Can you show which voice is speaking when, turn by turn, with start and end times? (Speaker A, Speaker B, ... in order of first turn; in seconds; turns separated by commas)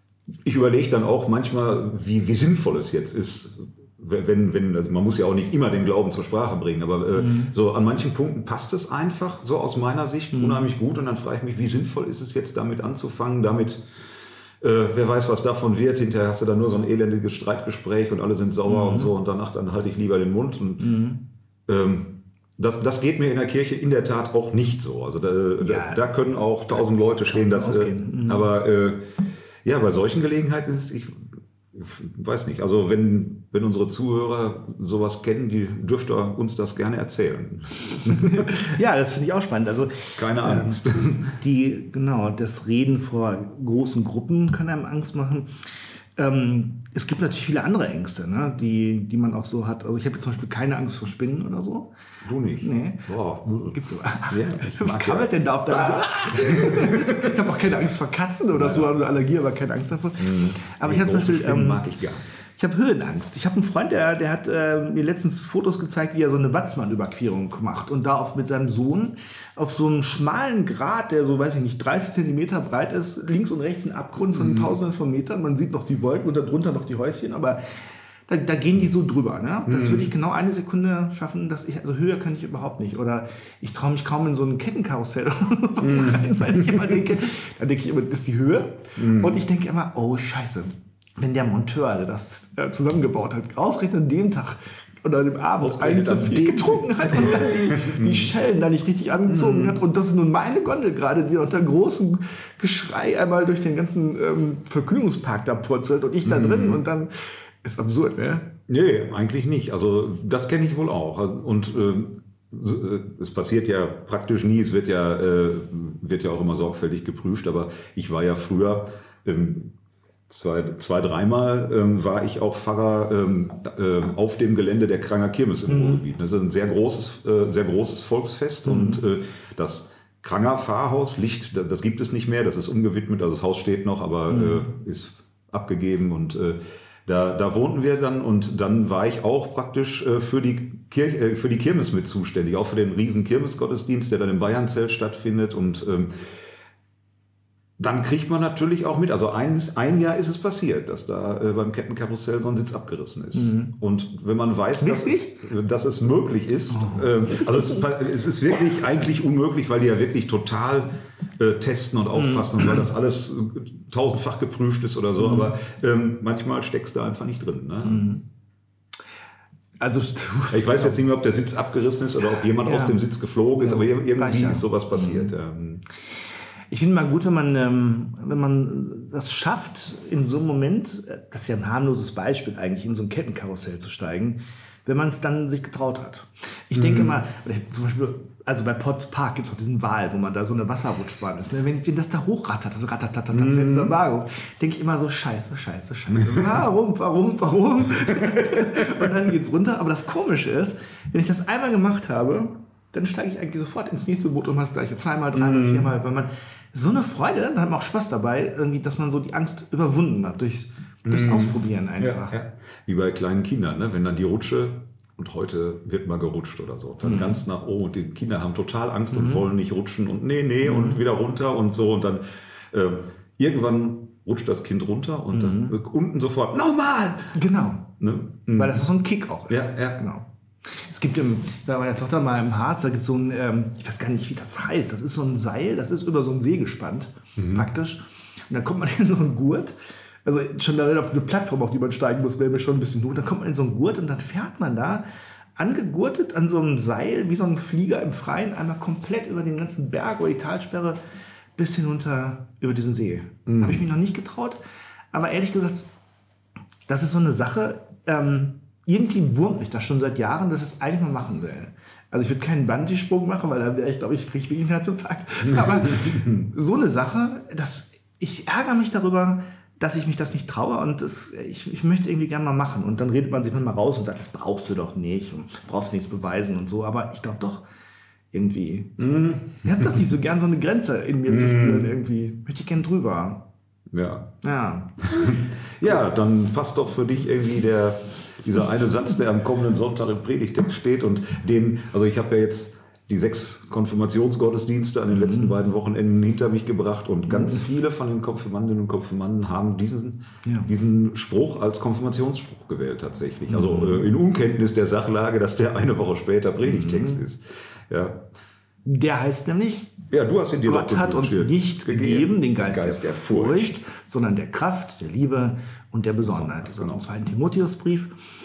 Speaker A: 0.4-13.9, Speaker B: 7.1-7.5, Speaker B: 10.3-10.7, Speaker A: 14.6-21.0, Speaker B: 18.7-19.1, Speaker B: 20.8-21.2, Speaker A: 21.7-29.1, Speaker B: 25.6-26.0, Speaker B: 26.7-28.5, Speaker A: 29.6-38.6, Speaker B: 38.0-45.5, Speaker A: 40.2-41.4, Speaker B: 46.2-51.9, Speaker A: 52.2-53.8, Speaker B: 52.6-53.1, Speaker B: 53.6-61.9, Speaker A: 54.3-57.3, Speaker A: 58.5-58.9, Speaker A: 60.2-62.3, Speaker B: 62.6-77.6, Speaker A: 74.3-74.7, Speaker B: 78.3-108.5, Speaker A: 79.7-80.1, Speaker A: 85.8-87.1, Speaker A: 89.0-89.4, Speaker A: 95.6-98.3, Speaker A: 99.3-99.8, Speaker A: 106.2-106.8, Speaker A: 108.7-119.7, Speaker A: 120.3-146.1, Speaker B: 125.7-126.0, Speaker B: 128.6-129.0, Speaker B: 134.3-134.7, Speaker A: 147.8-168.1, Speaker B: 153.3-153.8, Speaker B: 154.8-155.4, Speaker B: 156.7-157.8, Speaker B: 162.2-162.8, Speaker B: 165.2-165.6, Speaker B: 167.8-168.2, Speaker B: 169.8-171.0, Speaker A: 170.5-175.8, Speaker B: 172.6-173.0, Speaker B: 173.6-175.3, Speaker B: 176.7-212.4, Speaker A: 186.7-187.2, Speaker A: 193.3-193.9, Speaker A: 196.3-196.6, Speaker A: 198.2-199.0, Speaker A: 205.3-205.9, Speaker A: 211.1-227.4, Speaker B: 217.0-217.4, Speaker B: 219.1-219.5, Speaker B: 220.6-221.0, Speaker B: 225.3-225.8, Speaker B: 227.3-228.0, Speaker A: 228.0-228.8, Speaker B: 228.5-245.0, Speaker A: 229.5-230.0, Speaker A: 237.4-237.7, Speaker B: 245.6-251.0, Speaker B: 251.6-254.6, Speaker A: 253.5-253.8, Speaker B: 255.1-255.9, Speaker B: 256.9-277.6, Speaker A: 265.5-266.4, Speaker B: 278.3-279.0, Speaker A: 279.0-280.1, Speaker B: 279.6-283.5, Speaker A: 281.3-282.0, Speaker A: 283.9-284.3, Speaker B: 284.4-285.3, Speaker A: 285.0-308.3, Speaker B: 295.1-295.5, Speaker B: 297.3-297.7, Speaker B: 303.5-304.1, Speaker B: 306.6-307.2, Speaker B: 308.9-309.9, Speaker A: 310.1-313.8, Speaker B: 310.6-318.1, Speaker A: 316.3-317.1